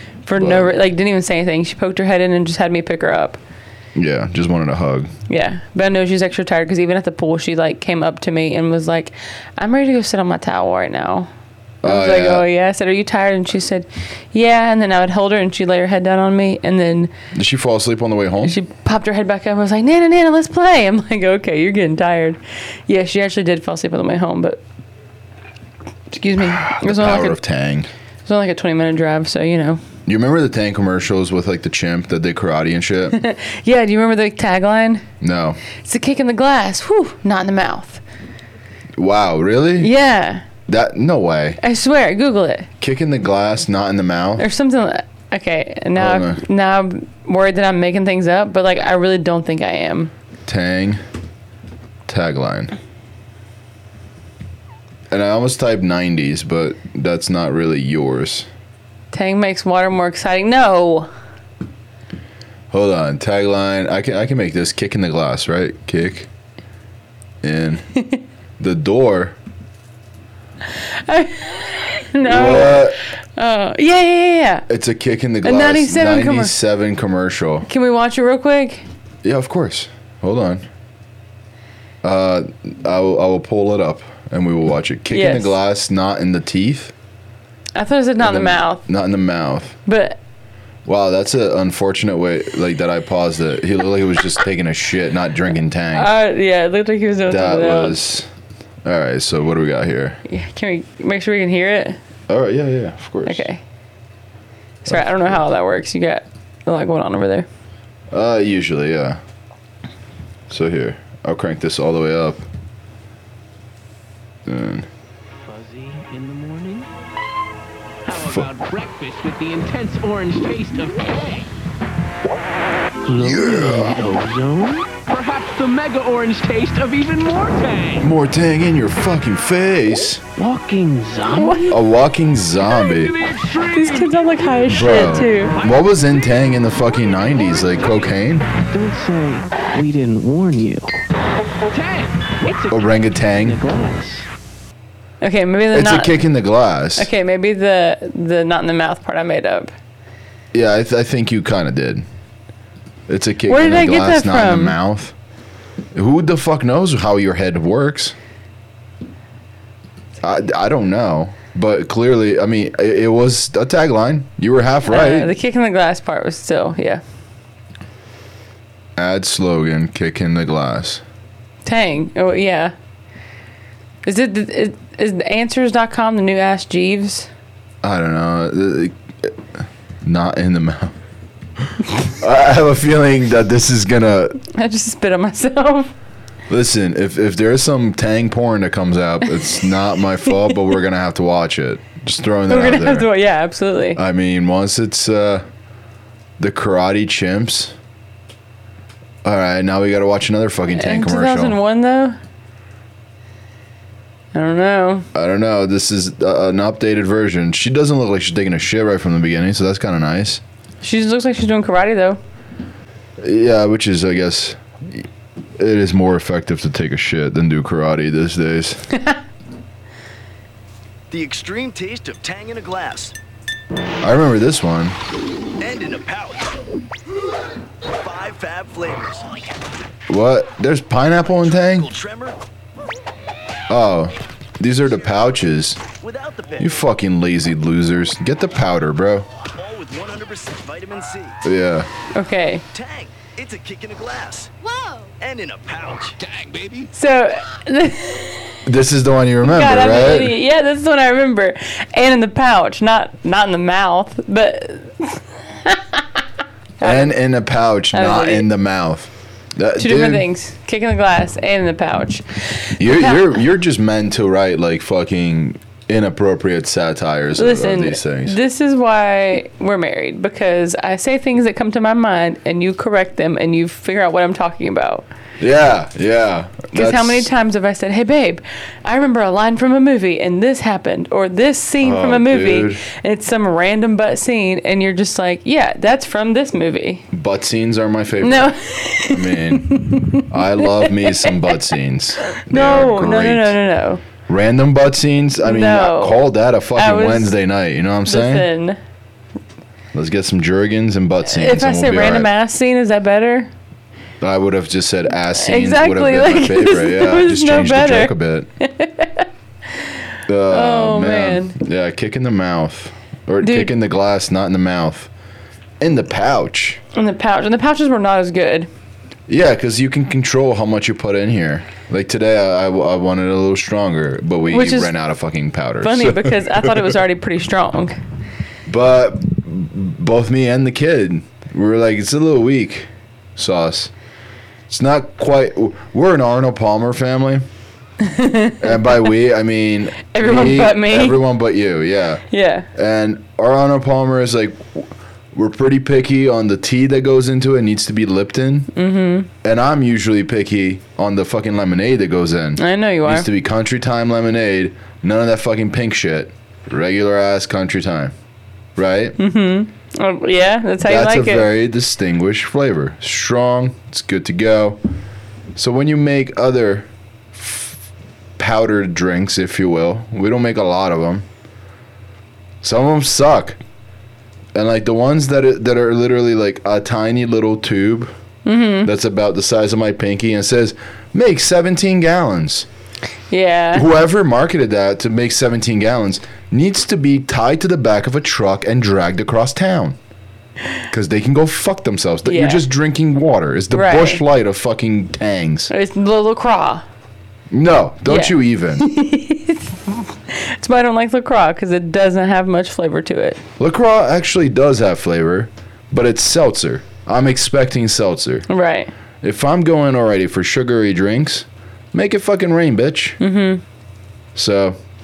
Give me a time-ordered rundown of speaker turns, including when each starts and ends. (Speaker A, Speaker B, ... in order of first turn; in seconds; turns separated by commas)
Speaker A: 0.2-3.4, Speaker B: 0.4-0.7, Speaker B: 4.0-5.1, Speaker A: 5.3-11.3, Speaker B: 11.8-12.5, Speaker A: 11.8-17.1, Speaker B: 17.3-18.6, Speaker A: 18.4-24.6, Speaker A: 26.1-27.4, Speaker B: 26.4-27.9, Speaker A: 28.3-29.8, Speaker B: 30.1-33.2, Speaker A: 33.1-35.0, Speaker B: 35.2-35.6, Speaker A: 35.8-38.0, Speaker B: 39.0-39.9, Speaker A: 39.8-40.4, Speaker B: 40.7-41.6, Speaker A: 41.6-42.7, Speaker B: 42.8-44.5, Speaker A: 44.4-50.1, Speaker B: 46.0-46.4, Speaker B: 50.5-51.0, Speaker B: 52.1-52.7, Speaker B: 55.1-58.5, Speaker A: 59.1-61.1, Speaker B: 62.7-66.3, Speaker B: 67.4-67.9, Speaker B: 68.6-69.3, Speaker A: 70.7-74.7, Speaker B: 72.2-73.0, Speaker B: 74.7-77.7, Speaker A: 75.4-76.5, Speaker A: 77.7-78.8, Speaker B: 79.2-80.7, Speaker B: 82.0-86.9, Speaker A: 85.1-85.5, Speaker A: 87.8-88.8, Speaker B: 88.2-89.8, Speaker A: 89.9-90.2, Speaker B: 90.8-96.1, Speaker A: 96.0-98.0, Speaker B: 97.3-98.3, Speaker B: 98.8-100.2, Speaker A: 100.3-102.0, Speaker B: 102.3-103.4, Speaker A: 103.2-103.6, Speaker A: 104.8-107.5, Speaker B: 104.9-105.4, Speaker B: 108.1-109.2, Speaker B: 110.5-112.5, Speaker B: 114.5-114.9, Speaker C: 115.4-116.9, Speaker C: 118.0-121.5, Speaker B: 118.2-118.5, Speaker C: 123.0-128.1, Speaker B: 123.2-124.0, Speaker B: 128.0-130.2, Speaker C: 130.4-131.8, Speaker A: 131.4-131.7, Speaker B: 131.7-133.1, Speaker C: 132.7-134.6, Speaker A: 133.7-135.5, Speaker B: 134.7-138.5, Speaker C: 135.5-135.9, Speaker C: 138.7-141.0, Speaker C: 141.7-144.3, Speaker B: 142.7-143.6, Speaker A: 145.2-146.2, Speaker B: 145.7-147.1, Speaker A: 147.0-149.7, Speaker B: 150.5-152.1, Speaker B: 153.1-155.1, Speaker A: 153.5-154.8, Speaker B: 155.9-158.2, Speaker B: 160.2-165.3, Speaker A: 164.9-167.0, Speaker B: 169.0-171.0, Speaker A: 171.7-172.7, Speaker A: 174.1-177.3, Speaker B: 177.8-179.5, Speaker B: 180.0-180.9, Speaker B: 181.7-184.4, Speaker A: 184.5-185.9, Speaker B: 186.5-193.1, Speaker A: 192.5-194.0, Speaker B: 194.0-195.4, Speaker B: 196.4-197.8, Speaker B: 199.2-201.6, Speaker A: 200.7-202.2, Speaker A: 204.3-205.1, Speaker B: 205.1-210.4, Speaker A: 210.8-212.2, Speaker B: 213.2-215.1, Speaker B: 215.6-218.8, Speaker D: 221.1-223.2, Speaker B: 224.0-225.0, Speaker D: 225.6-226.6, Speaker D: 227.8-229.4, Speaker B: 230.1-231.9, Speaker D: 231.2-232.4, Speaker B: 233.7-235.8, Speaker D: 236.0-236.8, Speaker B: 236.6-239.3, Speaker D: 239.6-241.4, Speaker B: 241.4-241.9, Speaker A: 242.2-242.6, Speaker D: 242.7-244.5, Speaker D: 245.2-246.2, Speaker A: 246.9-248.6, Speaker B: 248.7-250.4, Speaker A: 249.4-256.2, Speaker B: 256.8-260.2, Speaker A: 256.8-257.2, Speaker A: 257.9-258.5, Speaker A: 259.8-263.3, Speaker B: 262.8-268.4, Speaker A: 267.4-275.1, Speaker B: 275.4-277.3, Speaker A: 276.7-287.1, Speaker B: 281.8-282.8, Speaker B: 287.1-293.6, Speaker A: 288.2-291.6, Speaker A: 292.3-294.0, Speaker B: 294.3-298.5, Speaker A: 295.4-296.2, Speaker A: 296.8-297.3, Speaker A: 298.1-298.8, Speaker B: 299.9-302.3, Speaker A: 301.2-303.5, Speaker B: 304.2-308.5, Speaker A: 305.4-309.9, Speaker B: 310.3-315.1, Speaker A: 310.5-311.6, Speaker A: 313.4-313.7, Speaker B: 315.8-316.8, Speaker A: 316.9-318.7, Speaker B: 319.3-327.0, Speaker A: 324.5-324.9, Speaker A: 325.8-328.0, Speaker B: 328.7-333.9, Speaker B: 334.7-337.4, Speaker A: 338.0-338.8, Speaker B: 338.6-342.2, Speaker A: 340.1-341.2, Speaker A: 342.3-342.7, Speaker B: 342.7-348.7, Speaker A: 348.8-349.3, Speaker B: 349.4-358.1, Speaker A: 352.6-353.3, Speaker B: 358.8-359.2, Speaker A: 359.2-361.5, Speaker B: 360.8-364.8, Speaker B: 365.6-367.8, Speaker B: 368.4-371.3, Speaker B: 372.6-373.6, Speaker B: 374.5-378.1, Speaker A: 378.5-378.9, Speaker B: 378.9-382.7, Speaker A: 383.3-383.9, Speaker B: 383.7-390.0, Speaker B: 390.9-395.7, Speaker A: 392.3-392.6, Speaker A: 393.7-394.2, Speaker A: 395.7-396.8, Speaker B: 397.5-398.9, Speaker A: 398.1-403.4, Speaker B: 403.6-408.5, Speaker A: 408.5-408.9, Speaker B: 409.2-413.2, Speaker A: 413.2-413.6, Speaker B: 414.4-414.8